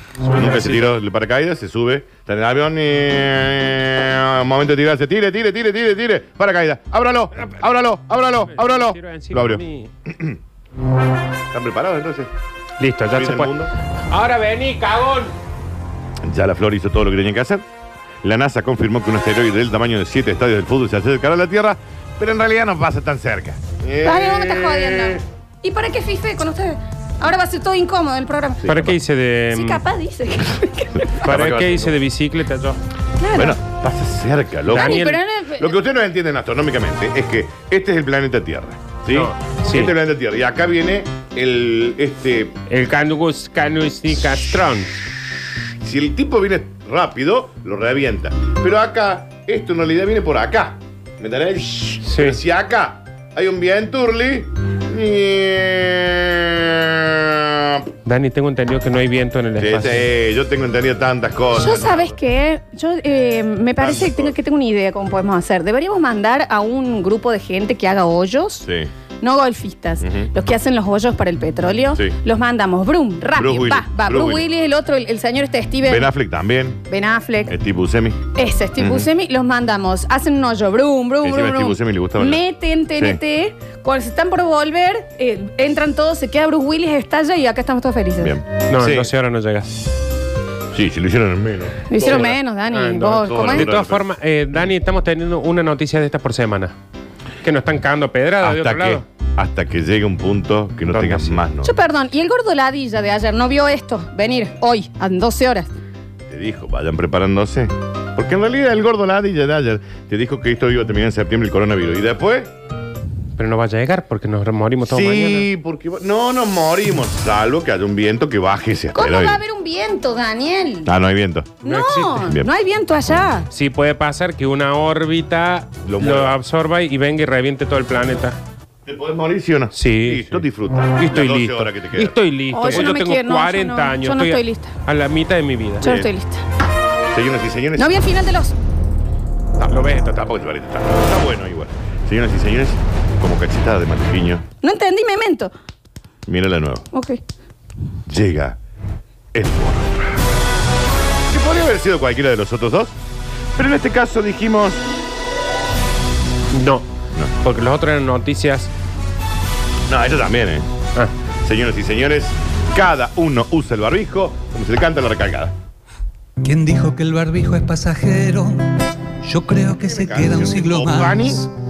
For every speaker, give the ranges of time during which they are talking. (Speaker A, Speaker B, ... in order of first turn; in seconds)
Speaker A: 0.2-1.0, 8.4-9.9, 12.8-13.5, 14.1-15.3, 28.6-29.8, 31.2-32.8, 34.7-35.2, 39.1-40.0, 42.7-45.1, 52.0-52.4, 58.0-60.1, 88.7-89.7, 92.1-96.7, 97.4-99.0, 100.9-101.4, 113.4-115.5, 121.6-122.3, 123.5-128.4, 129.7-135.9, 139.7-140.3, 156.5-156.9, 157.4-158.7
Speaker B: 0.3-10.4, 11.5-12.3, 13.1-13.7, 16.2-17.6, 18.2-25.2, 28.6-29.0, 31.0-32.0, 33.3-42.5, 45.8-57.9, 59.6-62.1, 63.8-64.4, 68.6-68.9, 70.0-70.3, 73.3-74.5, 75.8-76.8, 77.5-78.2, 78.8-79.1, 81.2-82.4, 88.2-89.1, 90.7-92.4, 93.2-94.0, 98.4-101.7, 106.3-112.5, 114.8-119.4, 120.8-121.6, 122.2-122.5, 125.8-126.3, 128.9-132.9, 135.8-136.1, 137.1-138.0, 139.6-144.4, 146.2-146.9, 148.1-148.6, 149.3-150.2, 151.3-152.9, 153.6-154.8, 159.9-160.7, 161.4-165.5, 169.7-171.5
Speaker C: 24.0-28.7, 29.5-31.4, 33.2-33.6, 34.7-35.8, 61.5-68.7, 69.2-76.1, 76.9-77.5, 78.3-88.4, 91.9-93.7, 101.6-105.7, 118.9-120.9, 121.6-123.5, 132.5-134.7, 135.8-136.4, 137.8-138.6, 144.6-145.5, 146.9-147.2
Speaker D: 166.4-171.5